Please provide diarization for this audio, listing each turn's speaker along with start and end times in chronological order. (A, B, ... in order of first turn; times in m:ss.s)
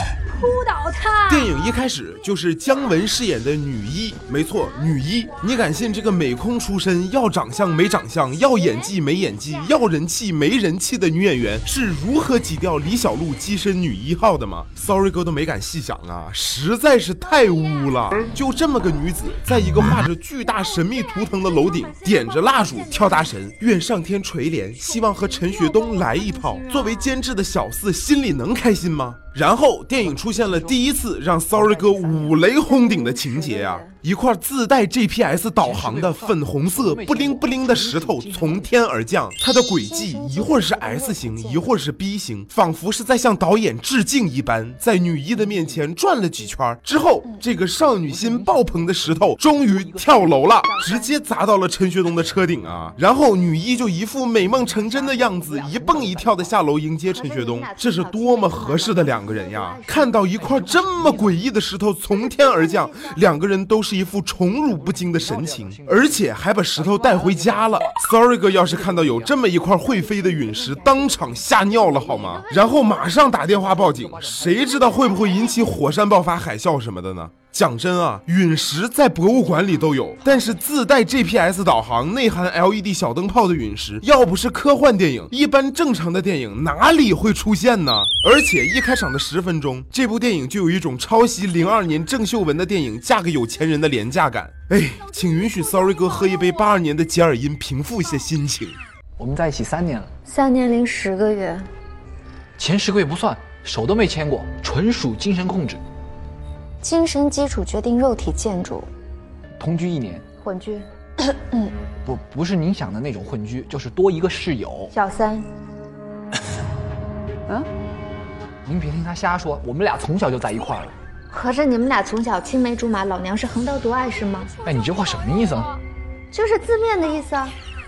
0:00.3-0:01.5 A
0:01.3-1:38.8 B
0:21.2-0:23.1 A
0:24.8-0:27.1 A
0:30.0-0:30.8 C
0:31.5-0:32.4 C
0:32.7-0:33.9 D
0:35.5-0:38.7 C
0:39.8-0:41.7 D
0:45.5-0:45.8 C
0:48.0-0:50.7 C
0:50.7-0:51.0 D
0:54.7-0:56.5 C
0:57.1-1:00.2 D
1:00.3-1:01.4 C
1:02.6-1:03.2 D
1:04.8-1:06.2 C
1:06.7-1:08.0 C
1:08.7-1:09.4 C
1:09.8-1:11.3 D
1:11.9-1:12.5 C
1:13.2-1:15.0 C
1:39.2-1:40.1 C
1:40.2-1:41.7 D
1:42.6-1:45.8 C
1:46.8-1:48.9 D
1:49.6-1:50.2 C
1:50.4-1:51.7 D
1:52.0-1:54.9 C
1:54.9-1:55.5 D
1:58.6-2:00.9 C
2:01.3-2:04.5 D
2:04.6-2:05.7 C
2:06.3-2:07.6 D